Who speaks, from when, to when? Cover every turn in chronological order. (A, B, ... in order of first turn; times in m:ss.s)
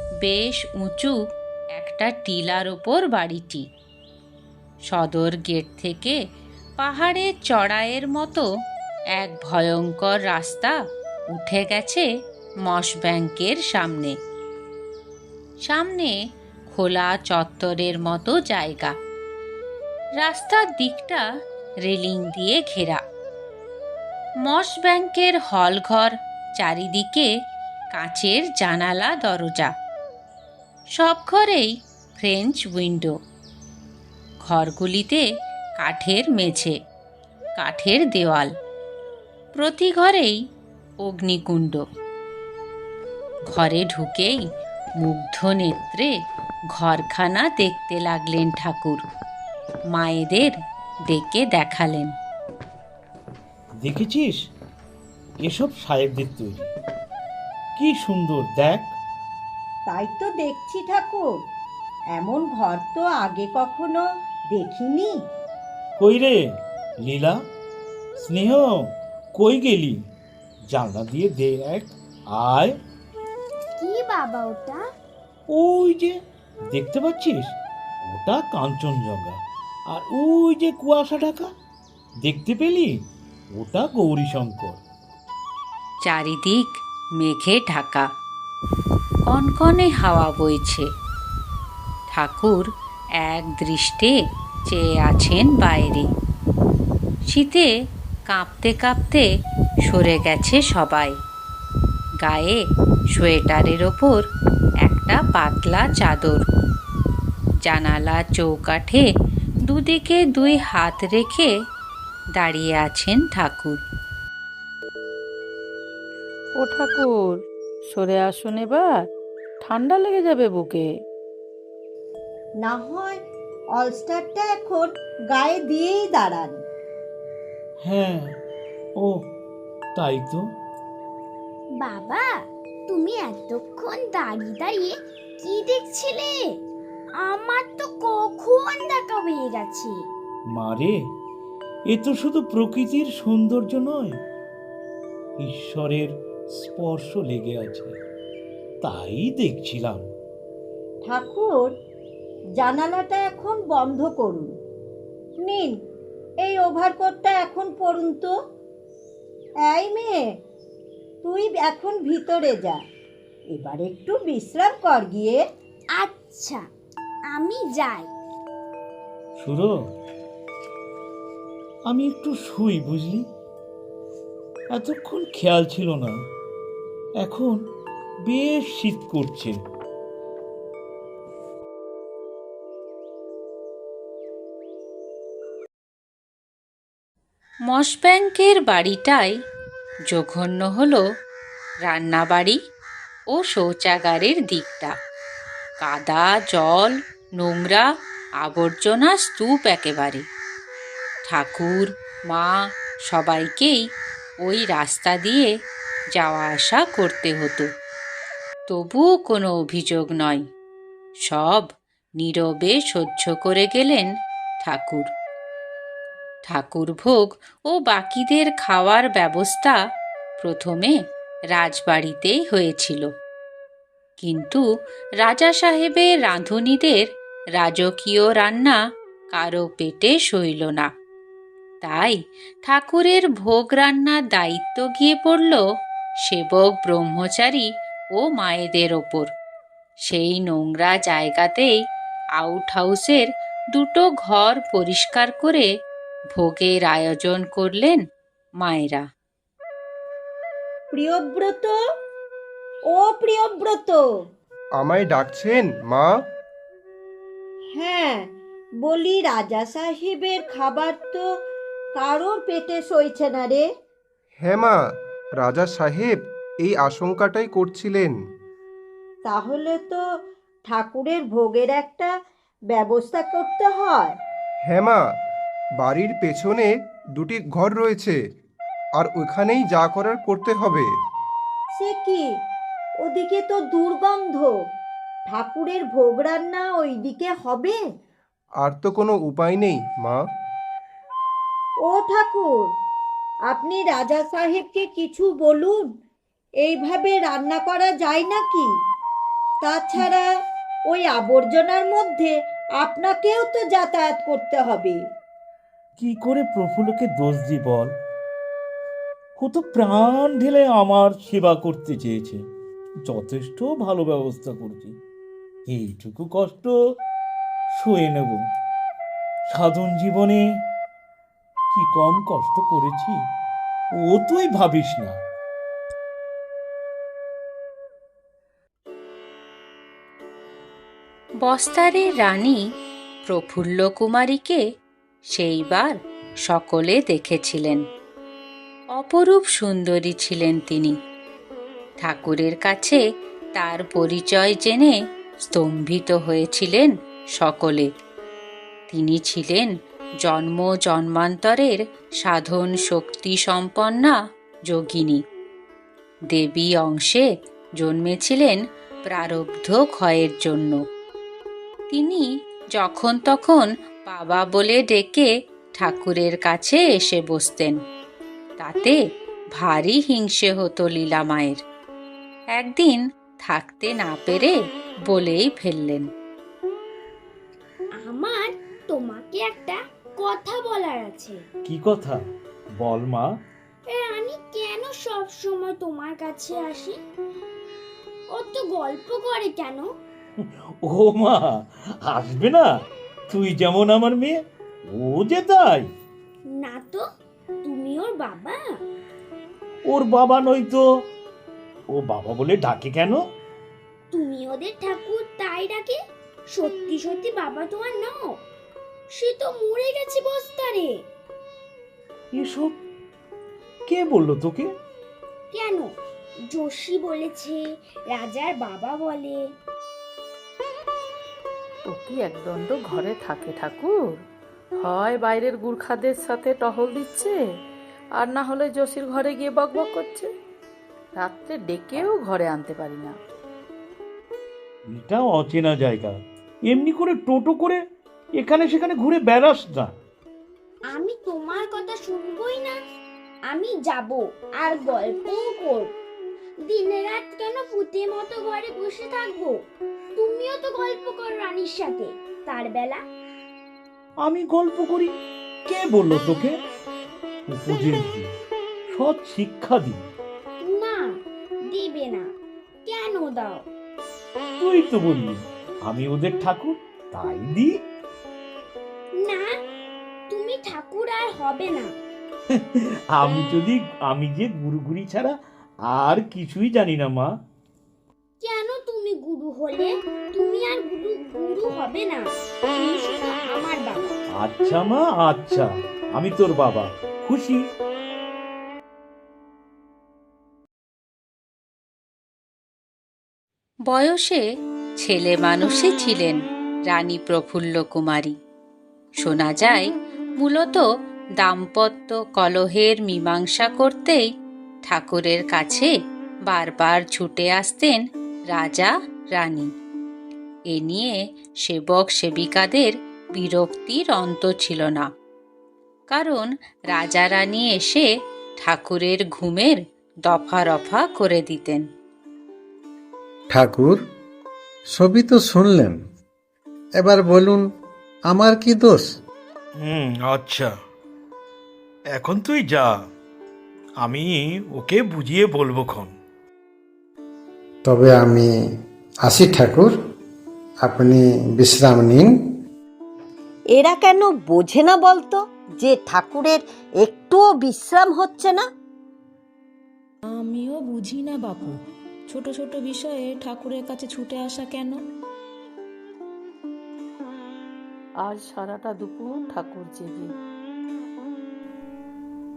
0:00.2-0:01.2 A
0:01.8-0:03.6 A
0:04.9-0:06.2 A
0:06.8-0:08.4 A
0:09.1-0:10.8 A
0:11.3-0:12.0 A
0:12.6-0:14.1 A
0:15.7-0:16.1 A
0:16.7-0:18.9 A
0:20.2-0:21.2 A
0:21.8-0:23.0 A
0:24.4-0:27.3 A
0:27.9-0:29.7 A
0:31.0-0:33.1 A
0:34.4-0:35.2 A
0:35.8-0:36.7 A
0:37.6-0:38.5 A
0:39.5-0:40.4 A
0:41.0-0:41.8 A
0:43.5-0:44.4 A
0:45.0-0:46.1 A
0:46.7-0:49.0 A
0:49.9-0:50.5 A
0:51.1-0:52.1 A
0:53.8-0:54.4 B
0:55.4-0:56.7 B
0:57.8-0:58.9 B
0:59.9-1:01.3 C
1:02.2-1:05.1 C
1:06.0-1:06.4 B
1:07.0-1:07.4 B
1:08.2-1:10.0 B
1:10.7-1:12.7 B
1:13.8-1:14.8 D
1:15.5-1:16.2 B
1:16.7-1:19.4 B
1:19.9-1:21.5 B
1:22.2-1:22.9 B
1:23.6-1:24.8 B
1:26.0-1:28.1 A
1:29.3-1:30.8 A
1:32.1-1:32.7 A
1:33.2-1:34.1 A
1:34.7-1:36.1 A
1:37.3-1:37.7 A
1:38.3-1:39.2 A
1:39.9-1:41.2 A
1:42.2-1:42.6 A
1:43.1-1:44.2 A
1:44.8-1:46.4 A
1:47.6-1:49.0 A
1:49.6-1:51.5 A
1:52.4-1:53.8 A
1:56.6-1:59.1 E
1:59.6-2:00.9 E
2:02.6-2:03.2 C
2:03.8-2:06.6 C
2:07.8-2:08.3 B
2:10.0-2:10.4 B
2:11.8-2:12.3 D
2:12.9-2:16.4 D
2:17.2-2:20.0 D
2:20.5-2:20.9 B
2:21.9-2:24.2 B
2:25.4-2:27.9 B
2:28.8-2:30.0 B
2:31.1-2:31.7 C
2:32.6-2:34.5 C
2:35.4-2:35.7 C
2:36.4-2:38.3 C
2:39.7-2:40.2 C
2:41.2-2:42.8 C
2:43.5-2:45.4 C
2:46.0-2:46.6 D
2:47.3-2:48.1 D
2:49.4-2:49.7 B
2:51.9-2:53.2 B
2:54.7-2:56.1 B
2:57.2-2:57.6 B
2:58.3-2:59.6 B
3:07.7-3:09.3 A
3:10.1-3:11.0 A
3:11.8-3:12.6 A
3:13.3-3:14.9 A
3:15.8-3:17.9 A
3:18.4-3:20.2 A
3:21.3-3:23.8 A
3:24.4-3:25.5 A
3:26.2-3:27.7 A
3:28.7-3:30.4 A
3:31.3-3:31.7 A
3:32.2-3:34.1 A
3:34.6-3:35.1 A
3:36.5-3:39.8 A
3:40.4-3:41.0 A
3:41.5-3:43.1 A
3:44.2-3:44.6 A
3:45.2-3:47.0 A
3:47.6-3:48.8 A
3:49.3-3:50.9 A
3:51.8-3:55.6 A
3:56.2-3:59.3 A
4:00.1-4:01.7 A
4:02.4-4:05.7 A
4:06.4-4:08.0 A
4:08.6-4:09.0 A
4:10.9-4:11.8 C
4:12.9-4:14.0 C
4:14.8-4:16.1 F
4:17.8-4:18.3 C
4:18.8-4:21.2 C
4:22.0-4:23.6 C
4:24.4-4:24.8 F
4:25.4-4:28.2 F
4:29.2-4:30.0 C
4:30.7-4:32.1 C
4:32.7-4:34.2 C
4:34.7-4:35.0 F
4:35.8-4:38.2 F
4:39.0-4:40.9 F
4:41.8-4:42.2 C
4:43.0-4:44.5 C
4:45.3-4:47.8 C
4:48.6-4:50.2 F
4:51.9-4:52.7 C
4:53.5-4:55.8 C
4:56.6-4:58.7 C
4:59.6-5:00.3 C
5:00.9-5:05.0 C
5:06.0-5:07.9 B
5:09.4-5:12.4 B
5:13.1-5:14.9 B
5:15.7-5:16.7 B
5:17.7-5:18.4 B
5:19.5-5:20.4 B
5:21.7-5:23.1 B
5:24.0-5:25.2 B
5:31.4-5:32.6 A
5:33.3-5:34.6 A
5:35.3-5:37.8 A
5:39.0-5:41.0 A
5:42.0-5:43.0 A
5:43.6-5:47.9 A
5:48.9-5:54.2 A
5:54.7-5:55.2 A
5:56.3-5:57.3 A
5:57.8-6:00.8 A
6:01.9-6:07.8 A
6:08.6-6:09.0 A
6:09.6-6:11.6 A
6:12.5-6:16.1 A
6:18.0-6:21.4 D
6:21.6-6:22.2 B
6:22.8-6:23.3 B
6:23.9-6:27.0 D
6:28.3-6:29.9 D
6:30.4-6:32.6 B
6:33.3-6:34.4 B
6:34.9-6:35.9 B
6:36.6-6:37.0 D
6:37.6-6:38.6 D
6:39.9-6:40.8 B
6:41.9-6:43.2 B
6:44.1-6:46.0 D
6:46.5-6:48.4 D
6:49.2-6:51.0 D
6:52.3-6:52.8 B
6:53.9-6:54.7 B
6:55.5-6:55.9 D
6:56.5-6:57.6 D
6:58.1-6:59.4 D
7:01.9-7:04.2 E
7:04.8-7:07.4 E
7:08.2-7:10.3 E
7:11.2-7:13.2 E
7:14.9-7:17.8 B
7:18.4-7:19.9 B
7:20.9-7:22.8 D
7:23.5-7:25.9 D
7:26.7-7:29.6 D
7:30.2-7:33.0 D
7:34.2-7:35.1 B
7:35.7-7:36.5 B
7:37.5-7:38.3 B
7:38.9-7:40.0 B
7:40.6-7:41.1 D
7:41.7-7:42.3 D
7:42.8-7:43.6 D
7:44.6-7:47.8 B
7:49.2-7:49.5 D
7:50.3-7:51.9 D
7:52.5-7:55.4 B
7:55.9-7:57.3 B
7:58.4-8:04.1 D
8:04.3-8:07.6 B
8:13.9-8:14.4 A
8:15.0-8:18.4 A
8:19.2-8:20.8 A
8:21.4-8:24.2 A
8:24.9-8:25.9 A
8:26.5-8:29.7 A
8:30.7-8:35.1 A
8:36.1-8:38.1 A
8:38.6-8:41.8 A
8:43.5-8:44.0 G
8:44.9-8:46.0 G
8:47.0-8:47.6 G
8:48.3-8:49.1 G
8:49.8-8:50.7 B
8:52.1-8:52.9 B
8:54.0-8:56.1 B
8:57.8-8:58.5 G
8:59.2-8:59.9 G
9:00.8-9:02.3 G
9:03.8-9:08.6 C
9:10.3-9:11.7 H
9:12.3-9:15.0 H
9:18.2-9:20.3 E